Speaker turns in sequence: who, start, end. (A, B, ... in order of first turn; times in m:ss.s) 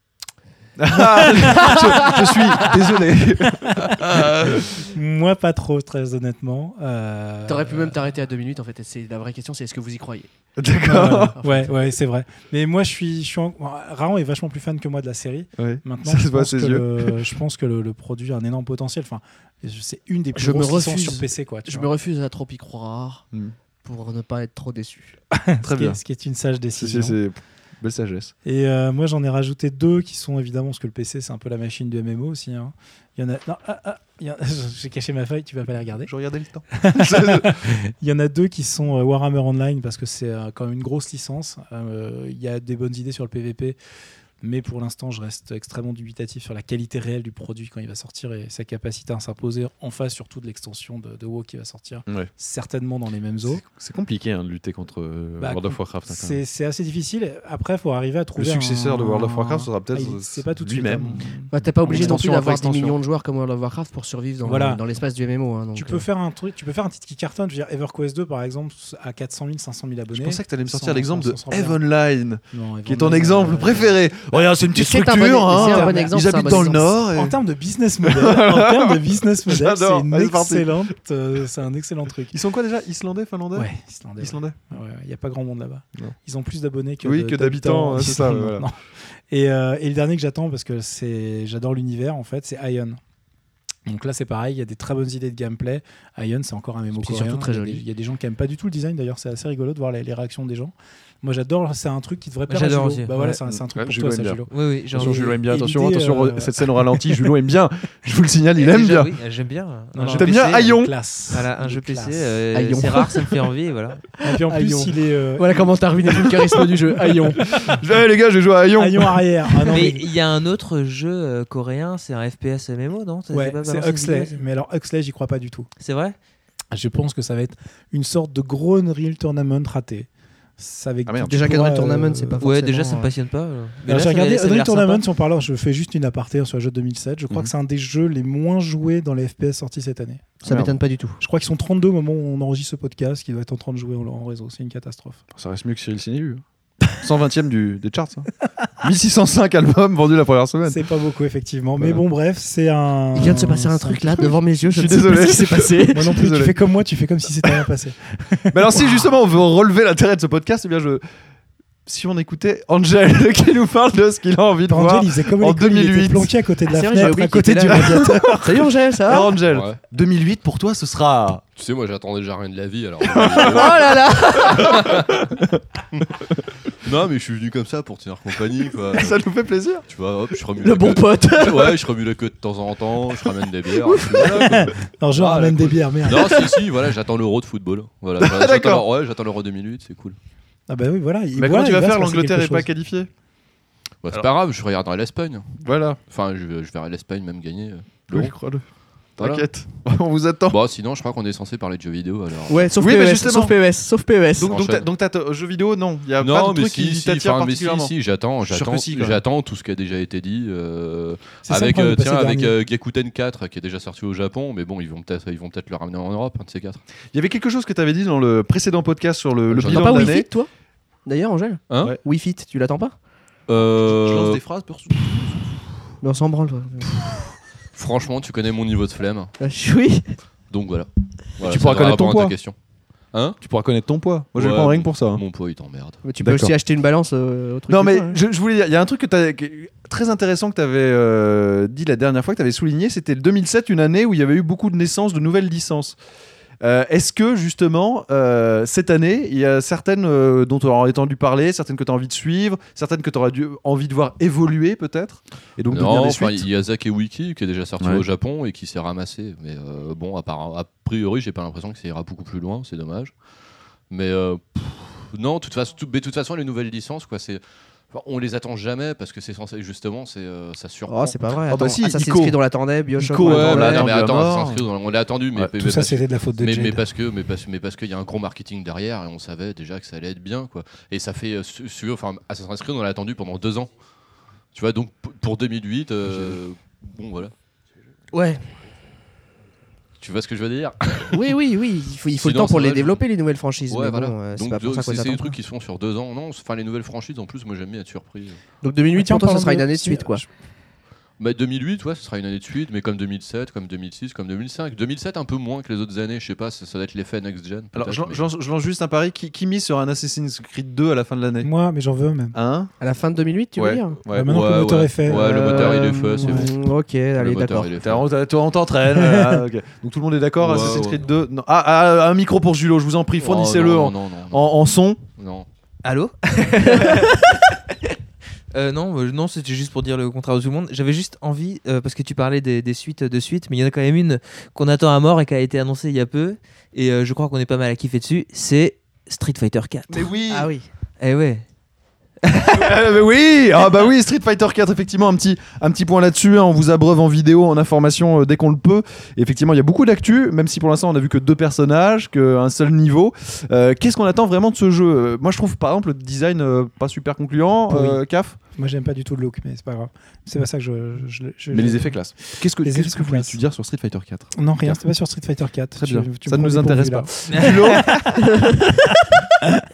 0:00.8-0:04.8 A
0:00.9-0:02.2 B
0:01.6-0:02.3 C
0:03.6-0:08.0 B
0:07.5-0:10.3 C
0:10.6-0:11.4 A
0:10.8-0:21.9 B
0:11.4-0:11.7 C
0:15.6-0:17.1 A
0:20.3-0:23.2 C
0:23.8-0:25.2 C
0:25.3-0:27.2 B
0:25.6-0:26.0 A
0:26.8-0:28.3 A
0:28.4-0:36.1 B
0:36.1-0:37.6 A
0:36.7-0:43.8 B
0:44.4-0:53.6 B
0:53.4-0:56.4 A
0:55.4-1:02.2 B
0:58.4-1:01.2 A
1:01.5-1:06.0 C
1:01.8-1:03.0 A
1:04.4-1:04.8 B
1:05.7-1:11.8 B
1:10.1-1:17.4 A
1:12.5-1:14.0 B
1:14.7-1:17.0 C
1:15.5-1:22.4 B
1:18.0-1:20.9 A
1:22.3-1:24.6 A
1:23.5-1:28.8 B
1:27.0-1:28.6 A
1:29.3-1:33.0 B
1:33.9-1:47.1 B
1:37.0-1:37.8 C
1:42.5-1:43.3 D
1:43.2-1:49.1 A
1:44.5-1:45.4 D
1:48.6-1:50.7 D
1:49.9-1:52.4 B
1:50.1-1:50.9 A
1:51.3-1:54.0 D
1:52.5-1:53.3 C
1:54.2-1:55.6 B
1:54.4-1:57.6 C
1:57.0-1:57.5 B
1:57.5-1:59.2 A
1:58.8-2:00.1 B
1:59.7-2:04.4 D
2:03.3-2:05.7 B
2:05.8-2:06.2 D
2:06.7-2:12.4 B
2:11.0-2:11.6 A
2:11.2-2:13.1 C
2:12.4-2:15.0 D
2:13.8-2:20.3 B
2:20.4-2:21.2 C
2:20.4-2:20.8 A
2:21.2-2:25.2 B
2:25.3-2:26.4 A
2:26.9-2:28.3 A
2:28.8-2:30.8 A
2:30.7-2:34.3 B
2:33.1-2:36.1 C
2:34.7-2:36.5 A
2:35.9-2:39.1 B
2:38.5-2:41.0 A
2:41.8-2:46.3 A
2:44.7-2:48.4 B
2:46.7-2:49.4 C
2:47.6-2:51.4 A
2:49.5-2:49.8 E
2:51.6-2:55.2 E
2:53.0-2:53.8 A
2:53.3-2:54.8 C
2:54.4-2:55.6 A
2:56.8-2:59.2 E
2:58.9-2:59.8 A
2:59.8-3:10.2 E
3:00.6-3:01.8 C
3:03.8-3:04.3 C
3:04.3-3:06.6 B
3:08.2-3:08.8 A
3:10.7-3:12.7 B
3:11.4-3:13.1 A
3:14.0-3:18.4 E
3:15.6-3:16.0 A
3:18.1-3:18.6 A
3:19.2-3:19.5 E
3:19.2-3:20.6 A
3:20.5-3:22.6 E
3:22.5-3:24.5 C
3:22.8-3:23.6 A
3:24.4-3:27.9 A
3:24.4-3:24.8 E
3:26.2-3:36.8 E
3:28.4-3:29.2 A
3:31.4-3:32.6 B
3:37.1-3:40.3 A
3:39.5-3:40.1 E
3:39.6-3:40.5 C
3:41.0-3:43.0 C
3:41.7-3:42.0 E
3:43.5-3:44.4 E
3:43.6-3:45.5 A
3:46.0-3:46.9 C
3:47.1-3:49.3 E
3:49.4-3:50.2 C
3:50.5-3:52.5 E
3:51.4-3:52.4 A
3:53.1-3:53.4 E
3:53.4-3:55.2 A
3:54.4-3:56.0 E
3:56.0-3:58.2 C
3:56.2-3:56.5 A
3:57.7-4:06.0 A
4:06.6-4:16.4 A
4:15.7-4:23.1 E
4:23.9-4:31.2 E
4:30.9-4:33.9 C
4:31.5-4:32.4 A
4:33.0-4:34.6 A
4:33.2-4:43.7 E
4:35.6-4:36.8 B
4:44.5-4:47.3 E
4:48.1-4:48.4 C
4:50.0-4:51.4 E
4:51.1-4:55.4 C
4:52.2-4:53.0 E
4:53.7-4:58.4 E
4:58.6-5:00.2 C
4:58.9-5:00.3 B
5:01.2-5:08.2 E
5:07.7-5:11.5 A
5:11.4-5:12.4 B
5:12.3-5:12.7 A
5:12.8-5:14.0 C
5:13.6-5:14.4 A
5:14.1-5:16.5 B
5:14.2-5:16.6 E
5:15.1-5:15.7 A
5:15.2-5:17.7 C
5:17.2-5:18.1 E
5:17.8-5:25.0 A
5:19.0-5:19.4 B
5:20.4-5:21.0 E
5:23.2-5:24.4 E
5:25.2-5:25.5 E
5:25.8-5:27.6 D
5:28.5-5:40.1 D
5:39.9-5:40.5 A
5:40.3-5:40.7 C
5:41.0-5:41.4 D
5:42.2-5:42.8 D
5:42.5-5:58.4 A
5:57.7-6:03.4 B
6:01.5-6:04.8 A
6:04.3-6:08.1 B
6:05.8-6:08.3 A
6:07.3-6:07.8 D
6:08.4-6:08.7 C